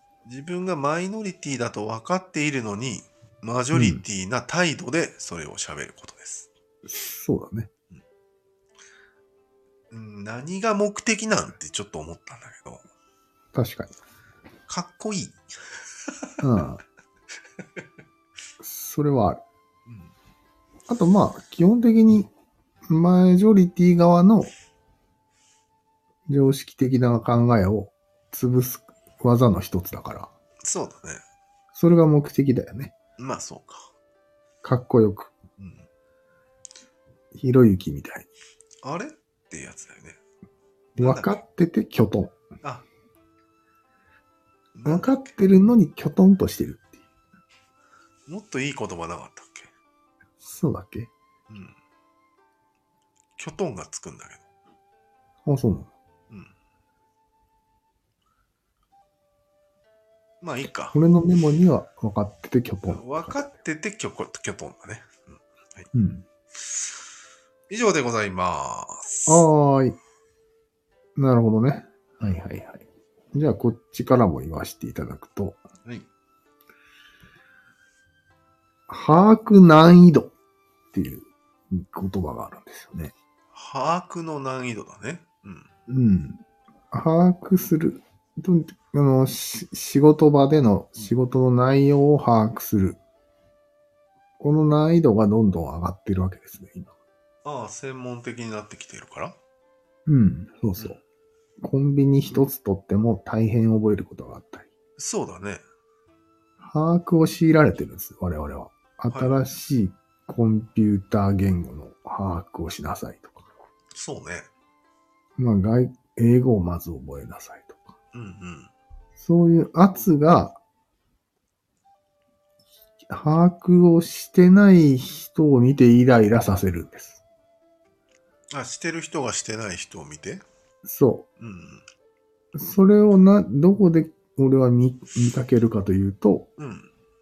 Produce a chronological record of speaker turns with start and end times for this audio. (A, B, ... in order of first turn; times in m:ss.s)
0:00.2-0:06.5 A
0:03.7-0:04.0 B
0:06.9-0:07.7 B
0:09.9-0:12.8 A
0:13.5-0:13.9 B
0:14.7-0:15.4 A
0:16.0-0:16.3 A
0:16.4-0:16.8 B
0:18.6-0:19.4 B
0:19.9-0:20.1 A
0:20.9-0:22.3 B
0:22.9-0:24.5 B
0:26.3-0:30.3 B
0:30.6-0:31.2 A
0:31.7-0:33.0 B
0:33.2-0:33.9 A
0:34.6-0:35.4 B
0:35.6-0:35.9 A
0:37.4-0:38.3 B
0:38.8-0:40.2 A
0:41.0-0:41.4 A
0:41.0-0:42.4 B
0:44.8-0:45.3 A
0:44.8-0:47.0 B
0:48.3-0:49.7 A
0:50.4-0:51.1 B
0:51.5-0:51.8 A
0:53.4-0:54.5 A
0:55.4-0:55.9 B
1:00.4-1:01.0 A
1:00.9-1:03.4 B
1:02.9-1:05.9 A
1:05.9-1:06.2 B
1:07.7-1:09.5 A
1:09.3-1:10.0 B
1:11.2-1:15.6 B
1:18.9-1:20.3 B
1:20.9-1:23.1 B
1:23.5-1:25.7 A
1:25.9-1:26.4 B
1:26.9-1:33.0 B
1:34.4-1:36.9 B
1:37.4-1:39.4 A
1:40.1-1:41.0 B
1:41.6-1:44.7 B
1:45.0-1:45.6 A
1:46.6-1:53.5 B
1:49.1-1:49.4 A
1:53.9-1:54.5 A
1:55.4-1:57.9 B
1:58.1-1:58.7 A
1:59.2-2:00.6 B
2:03.1-2:07.2 B
2:08.5-2:10.4 A
2:10.8-2:11.3 B
2:11.4-2:11.8 A
2:12.5-2:16.5 B
2:16.6-2:16.9 A